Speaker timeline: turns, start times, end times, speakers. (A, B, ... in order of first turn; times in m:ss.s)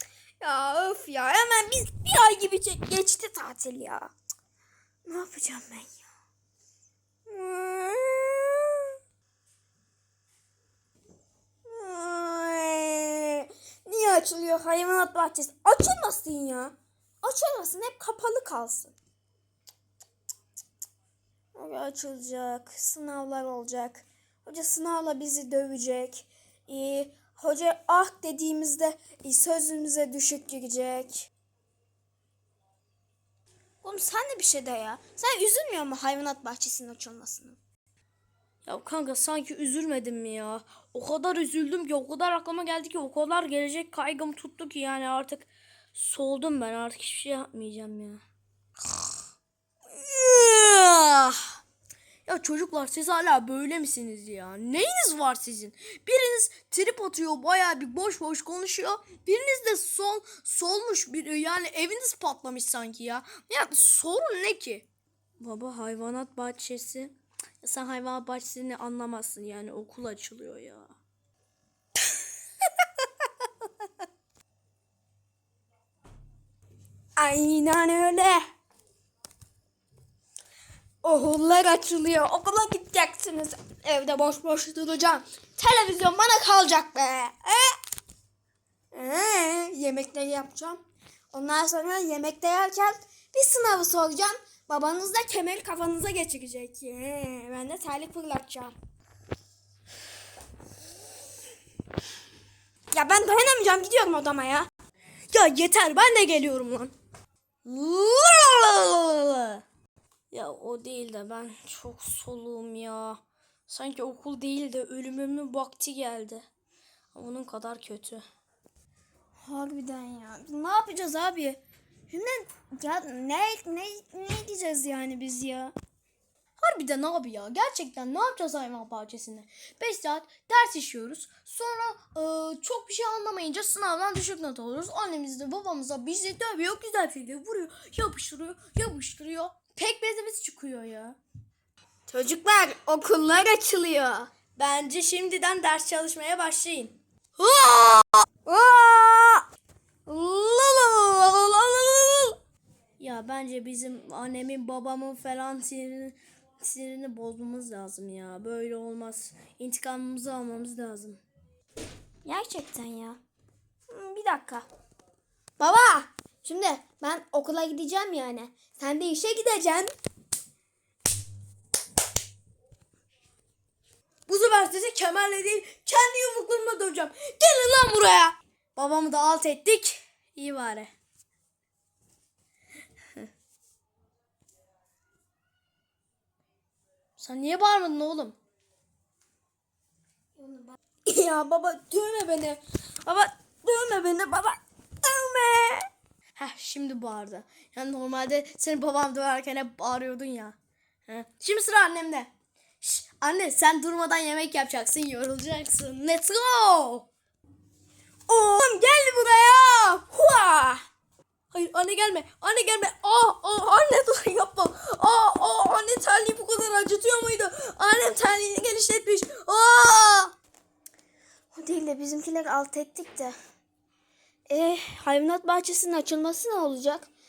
0:00.4-0:04.1 A
0:05.0-0:06.0 A
0:07.3-0:08.9 A
0:11.6-0:19.0 A
0:21.6-0:31.3 A
0:33.8-0:37.6 A
0:38.6-0:48.2 B
0:49.9-0:51.6 B
0:52.3-1:04.9 B
1:05.4-1:10.9 B
1:17.2-1:18.5 A
1:21.0-1:27.8 A
1:28.9-1:38.7 A
1:42.9-1:44.7 A
1:45.3-1:46.9 B
1:47.6-1:49.6 B
1:50.3-1:56.4 B
1:57.1-1:58.2 B
1:59.4-2:05.7 A
2:06.6-2:21.2 B
2:22.1-2:24.3 A
2:24.6-2:28.2 B
2:28.5-2:29.4 A
2:30.1-2:32.4 A
2:33.0-2:41.2 B
2:42.2-2:43.2 A
2:43.9-2:44.7 A
2:45.6-2:49.9 A
2:54.3-3:00.9 B
3:07.2-3:08.4 B
3:10.4-3:15.9 A
3:16.4-3:20.6 B
3:21.1-3:27.1 B
3:28.3-3:30.8 A
3:31.5-3:40.3 B
3:41.5-3:43.4 A
3:44.5-3:47.1 A